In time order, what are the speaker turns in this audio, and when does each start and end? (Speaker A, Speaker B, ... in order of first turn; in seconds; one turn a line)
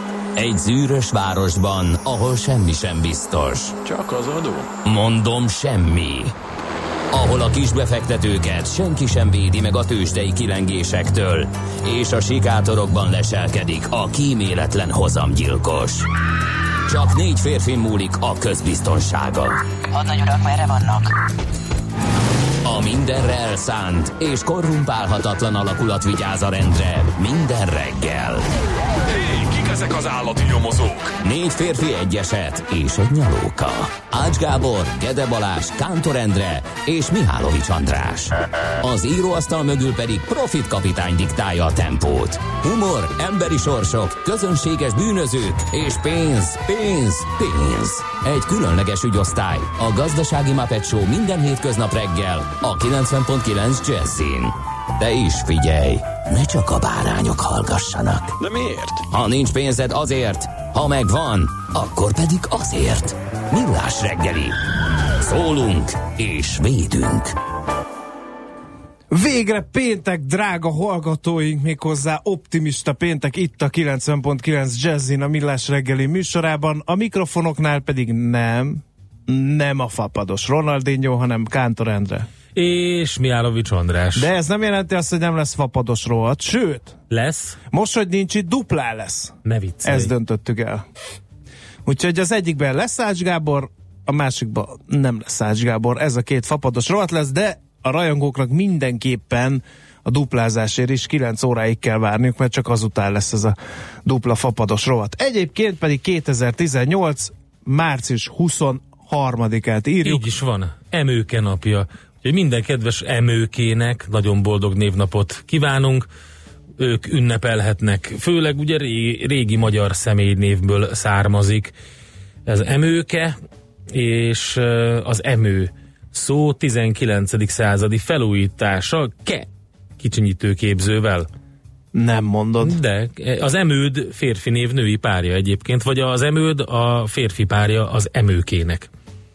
Speaker A: 0.3-3.8
Speaker B: 3.8-4.7
Speaker A: 4.8-6.3
Speaker A: 7.1-16.1
Speaker A: 16.9-21.1
Speaker A: 22.6-28.5
Speaker B: 29.1-31.1
Speaker A: 31.2-58.4
Speaker B: 58.4-59.0
Speaker A: 59.1-64.6
Speaker A: 65.2-67.3
Speaker C: 69.1-82.3
Speaker D: 82.5-84.3
Speaker C: 84.1-87.0
Speaker D: 87.1-87.6
Speaker C: 87.7-90.8
Speaker D: 89.4-90.1
Speaker C: 91.8-110.3
Speaker D: 110.0-116.1
Speaker D: 116.8-121.7
Speaker D: 122.5-123.3
Speaker D: 123.9-131.3
Speaker C: 131.9-132.8
Speaker D: 132.6-138.9